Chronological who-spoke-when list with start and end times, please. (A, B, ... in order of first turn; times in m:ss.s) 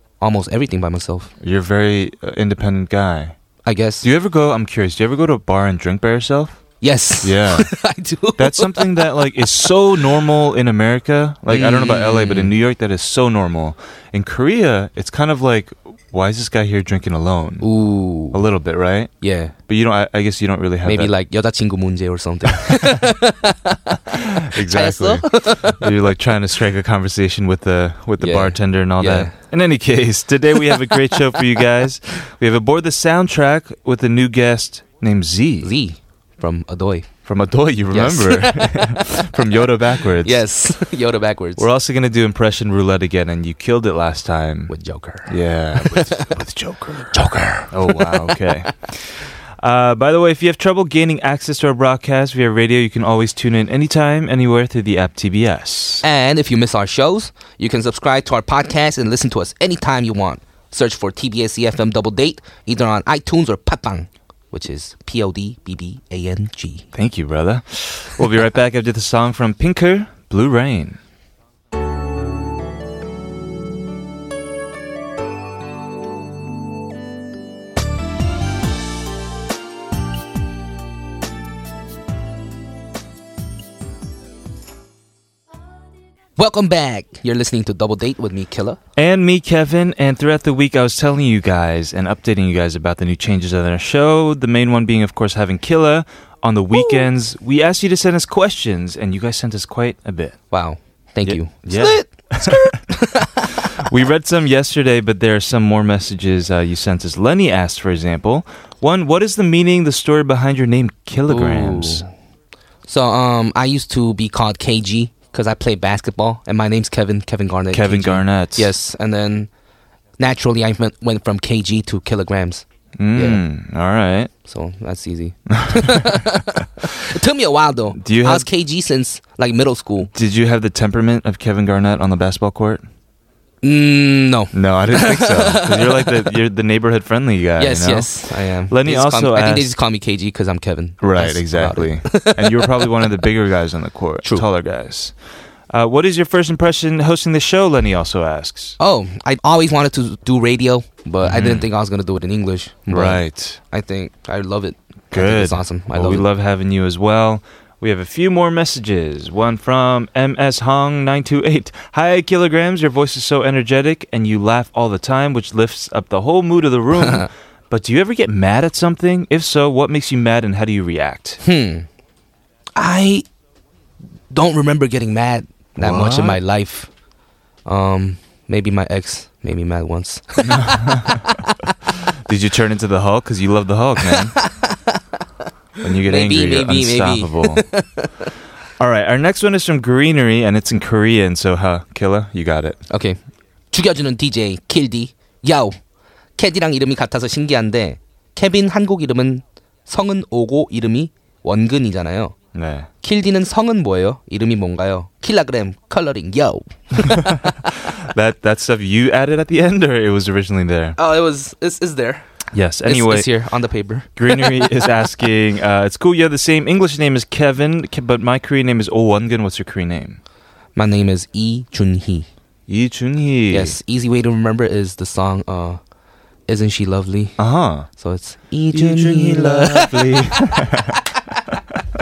0:00.2-0:01.3 A
0:01.4-0:03.4 B
0:03.6-0:04.1 A
0:04.0-0:06.6 B
0:06.8-0:09.7 A
0:07.2-0:07.7 B
0:08.4-0:17.7 B
0:11.5-0:12.6 A
0:17.6-0:18.4 A
0:18.3-0:19.1 B
0:19.2-0:19.5 A
0:19.7-0:21.1 B
0:20.8-0:25.8 A
0:24.4-0:35.7 B
0:28.2-0:29.3 A
0:35.6-0:37.1 A
0:37.2-0:40.5 B
0:37.9-0:39.4 A
0:40.2-0:41.7 A
0:41.6-0:44.8 B
0:44.7-0:46.3 A
0:45.3-0:56.0 B
0:47.1-0:48.6 A
0:56.0-1:06.8 A
1:06.9-1:11.0 B
1:26.4-1:28.8 A
1:29.0-1:40.4 B
1:36.7-1:37.1 A
1:40.5-1:43.7 A
1:41.2-1:42.8 B
1:43.6-1:52.0 B
1:51.3-1:52.1 A
1:52.9-1:59.5 A
1:57.7-1:58.7 B
2:00.2-2:03.4 A
2:03.0-2:04.3 B
2:04.4-2:10.1 A
2:05.5-2:06.2 B
2:08.0-2:08.5 B
2:10.1-2:12.9 B
2:13.6-2:16.4 A
2:14.5-2:19.7 B
2:17.6-2:23.1 A
2:21.0-2:25.1 B
2:25.7-2:28.8 B
2:28.8-2:36.2 A
2:31.2-2:31.7 B
2:32.9-2:33.6 B
2:35.1-2:51.4 B
2:46.9-2:47.3 A
2:51.4-2:51.9 A
2:52.8-2:53.2 A
2:54.3-2:56.9 A
2:55.8-2:56.4 B
2:57.6-3:01.5 A
3:00.4-3:01.3 B
3:01.9-3:04.4 B
3:04.0-3:05.2 A
3:05.8-3:07.7 B
3:05.8-3:08.3 A
3:08.8-3:12.8 B
3:12.9-3:13.2 A
3:13.7-3:15.8 A
3:16.4-3:22.4 A
3:22.5-3:22.9 B
3:23.0-3:27.5 A
3:27.0-3:31.0 B
3:31.0-3:32.2 A
3:32.5-3:33.3 B
3:32.8-3:34.5 A
3:34.2-3:40.2 B
3:40.8-3:42.3 A
3:42.7-3:43.8 B
3:43.5-3:45.8 A
3:46.5-3:47.4 A
3:47.4-3:47.9 B
3:47.9-3:51.4 A
3:48.7-3:51.0 B